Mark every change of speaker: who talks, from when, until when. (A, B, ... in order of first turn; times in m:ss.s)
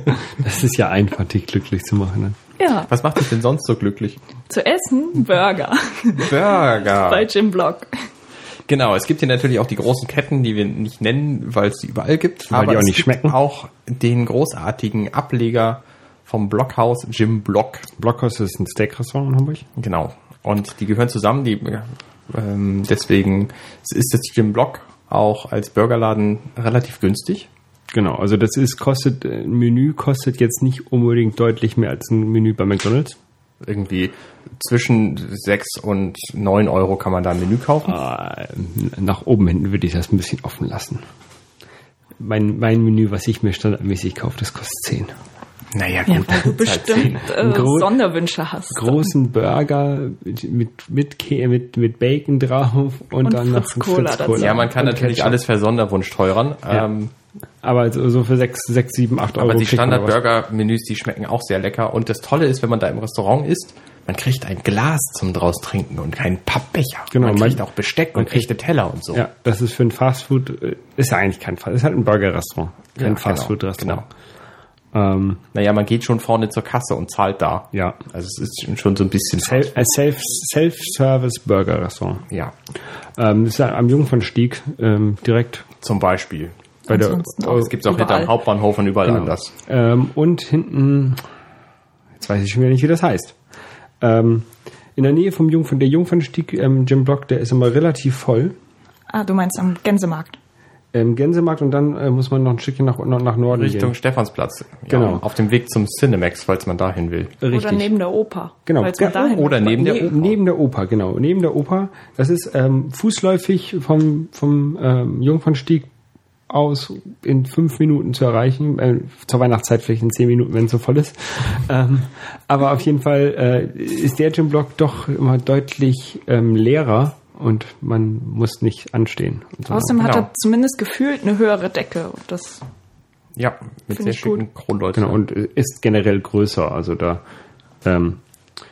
0:00.2-0:02.4 A
0:02.6-0:02.9 B
0:02.9-0:04.2 C
0:04.5-0:08.1 B
0:06.2-0:07.3 C
0:08.7-0:17.9 C
0:12.5-0:13.4 A
0:18.0-0:19.7 A
0:19.8-0:27.5 C
0:27.9-0:33.2 A
0:33.6-0:38.0 C
0:37.9-0:41.0 A
0:42.2-0:45.2 A
0:45.7-0:47.3 C
0:46.1-0:49.1 B
0:47.4-0:47.9 A
0:48.7-0:55.4 A
0:53.2-0:54.7 B
0:54.4-0:57.1 C
0:57.6-1:00.2 A
0:59.4-1:09.2 C
1:07.1-1:07.6 A
1:08.2-1:08.5 A
1:09.1-1:14.1 A
1:13.0-1:14.0 C
1:14.9-1:15.4 A
1:15.5-1:19.9 C
1:17.7-1:18.0 A
1:19.4-1:22.3 A
1:23.2-1:25.7 A
1:25.8-1:26.6 C
1:26.9-1:28.3 B
1:26.9-1:27.7 A
1:27.4-1:29.5 C
1:29.0-1:31.2 A
1:32.2-1:33.4 A
1:34.0-1:38.6 A
1:39.1-1:40.4 B
1:40.9-1:44.0 A
1:43.5-1:47.4 C
1:44.9-1:45.2 A
1:47.4-1:47.9 A
1:47.5-1:49.9 B
1:48.7-1:55.9 A
1:49.0-1:50.4 C
1:56.5-2:10.0 A
2:09.7-2:12.6 B
2:10.0-2:10.3 C
2:13.4-2:15.2 C
2:13.9-2:14.4 B
2:15.0-2:17.2 A
2:17.8-2:18.2 A